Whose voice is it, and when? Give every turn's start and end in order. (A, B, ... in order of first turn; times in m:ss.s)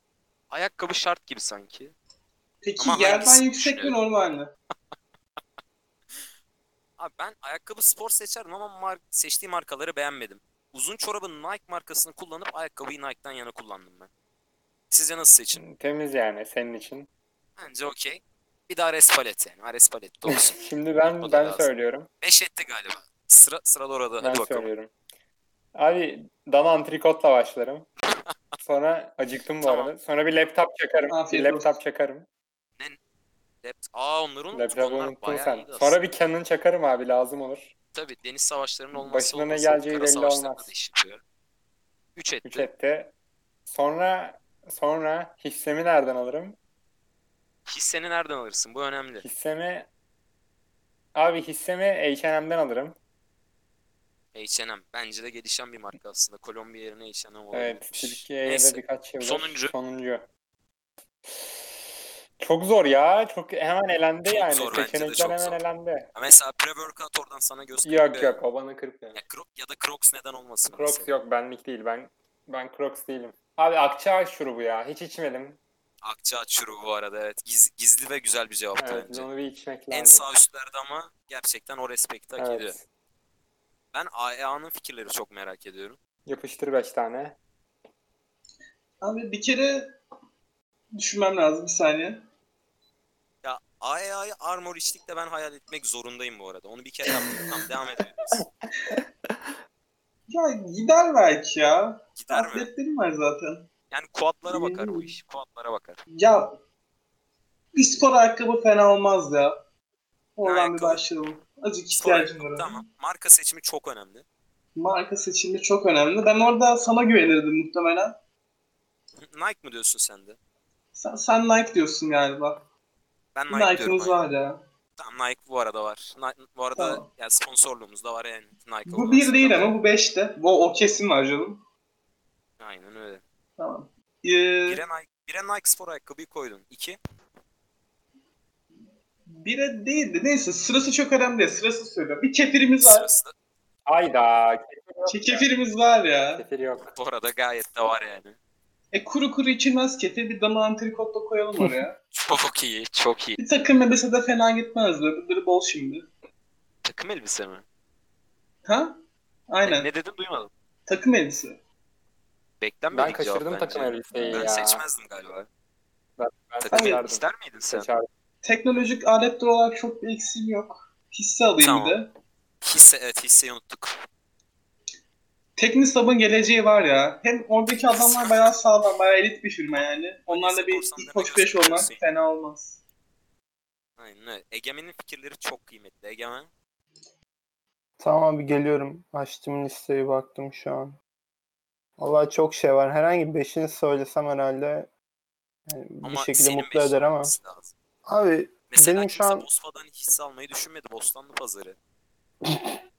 0:00.5-0:01.9 A
0:02.6-0:04.5 B
0:02.8-0:04.0 A
0:07.0-0:14.1 A
0:14.9-0:15.6 A
0:15.5-0:17.1 C
0:17.6-0:20.6 A
0:20.3-0:22.1 C
0:21.2-0:21.7 A
0:22.2-0:24.7 A
0:24.2-0:24.9 C
0:25.7-0:27.9 C
0:28.3-0:28.6 A
0:28.6-0:32.2 C
0:29.6-0:29.9 A
0:31.1-0:31.8 B
0:33.6-0:36.0 A
0:34.5-0:37.7 C
0:37.9-0:41.2 A
0:38.9-0:40.7 C
0:42.2-0:42.7 A
0:42.4-0:43.1 C
0:43.6-0:46.6 C
0:47.7-0:49.2 A
0:49.2-0:49.9 C
0:51.1-0:53.0 C
0:54.3-0:59.7 A
0:57.5-1:00.2 C
1:01.3-1:01.6 C
1:02.4-1:06.1 C
1:04.2-1:05.6 A
1:06.1-1:08.4 A
1:07.8-1:09.2 C
1:09.1-1:11.1 A
1:10.7-1:15.6 C
1:16.0-1:19.3 A
1:18.8-1:20.2 C
1:19.9-1:22.7 A
1:22.4-1:22.8 C
1:23.9-1:26.0 A
1:26.3-1:27.4 C
1:29.0-1:30.0 B
1:31.0-1:32.2 B
1:33.4-1:38.4 A
1:38.9-1:39.5 C
1:40.3-1:43.7 B
1:42.2-1:42.7 A
1:43.9-1:46.0 A
1:44.5-1:45.1 B
1:46.2-1:46.6 B
1:47.7-1:49.6 B
1:50.4-1:52.8 B
1:50.4-1:51.0 A
1:51.9-1:54.2 A
1:54.8-1:58.2 B
1:59.2-2:00.4 A
2:00.9-2:02.7 B
2:03.3-2:04.2 A
2:03.5-2:04.6 B
2:05.0-2:09.7 A
2:06.8-2:07.0 B
2:08.9-2:11.6 B
2:12.6-2:13.2 A
2:13.6-2:14.8 B
2:14.6-2:17.0 A
2:18.7-2:23.1 B
2:22.8-2:23.3 A
2:23.9-2:25.5 C
2:25.1-2:26.4 B
2:26.3-2:26.9 C
2:26.9-2:28.4 A
2:28.9-2:32.0 B
2:32.1-2:33.4 A
2:33.4-2:36.1 B
2:36.8-2:37.6 A
2:38.6-2:39.0 B
2:39.5-2:39.9 B
2:39.6-2:40.5 A
2:40.9-2:41.6 B
2:42.6-2:45.5 A
2:42.9-2:44.8 C
2:46.2-2:48.1 C
2:46.6-2:47.9 A
2:46.7-2:47.0 B
2:48.4-2:52.1 B
2:51.6-2:52.0 A
2:52.6-2:54.0 A
2:55.6-3:02.8 B
2:57.7-2:58.6 A
2:59.7-3:02.0 A
3:04.0-3:06.5 A
3:08.0-3:11.0 D
3:12.0-3:14.9 D
3:15.7-3:17.3 D
3:16.0-3:17.7 A
3:18.0-3:19.4 D
3:18.7-3:21.8 A
3:22.4-3:22.8 D